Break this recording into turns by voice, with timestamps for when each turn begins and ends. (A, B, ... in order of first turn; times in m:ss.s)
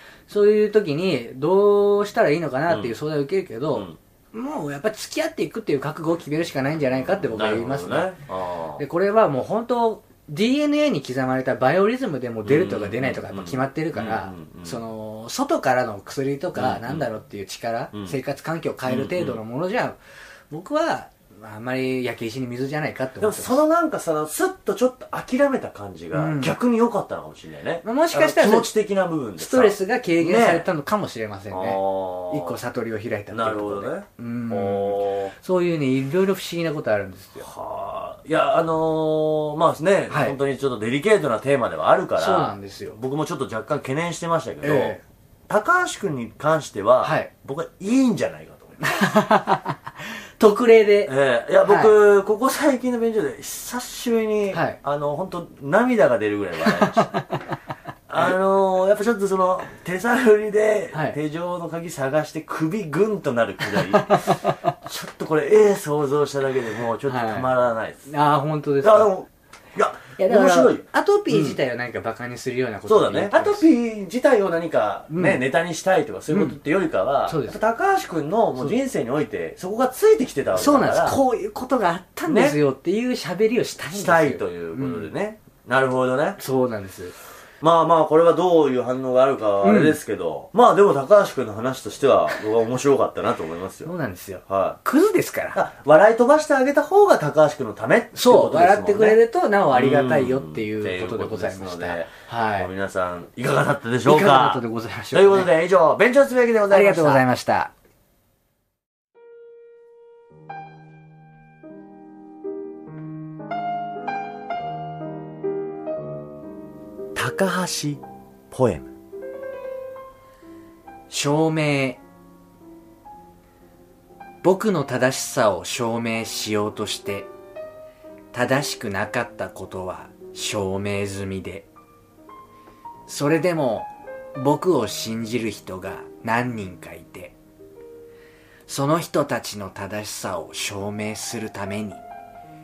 0:00.3-0:08.1 A
0:02.7-0:03.0 B
0:07.0-0:08.8 B
0:08.8-0:20.0 A
0:12.4-0:14.8 B
0:16.6-0:17.1 B
0:18.9-0:19.4 B
0:20.5-0:23.6 A
0:23.2-0:30.7 B
0:26.1-0:26.6 A
0:27.8-0:28.7 A
0:29.4-0:37.5 A
0:31.5-0:32.6 B
0:33.3-0:35.3 B
0:37.4-0:48.8 B
0:40.1-0:40.4 A
0:42.2-0:43.0 A
0:44.6-0:45.0 A
0:47.0-0:47.3 A
0:48.8-0:49.8 A
0:50.4-0:51.1 A
0:51.1-0:57.3 B
0:51.6-0:51.9 A
0:54.5-0:54.8 A
0:56.7-0:57.1 A
0:58.1-1:08.1 B
1:03.9-1:04.5 A
1:07.1-1:07.5 A
1:08.1-1:09.1 A
1:08.8-1:11.6 B
1:10.2-1:13.6 A
1:12.9-1:21.2 B
1:15.1-1:15.4 A
1:16.3-1:16.6 A
1:17.3-1:17.6 A
1:20.6-1:25.1 A
1:22.3-1:22.6 B
1:23.9-1:26.4 B
1:26.4-1:27.1 A
1:27.6-1:33.9 B
1:29.6-1:30.0 A
1:33.8-1:35.6 A
1:34.5-1:34.8 B
1:35.5-1:39.2 B
1:38.1-1:42.7 A
1:39.7-1:47.2 B
1:44.0-1:45.5 A
1:46.7-1:47.7 A
1:57.2-1:58.9 B
2:01.1-2:02.0 A
2:04.4-2:07.3 A
2:08.3-2:11.7 A
2:13.1-2:17.4 A
2:18.7-2:22.0 A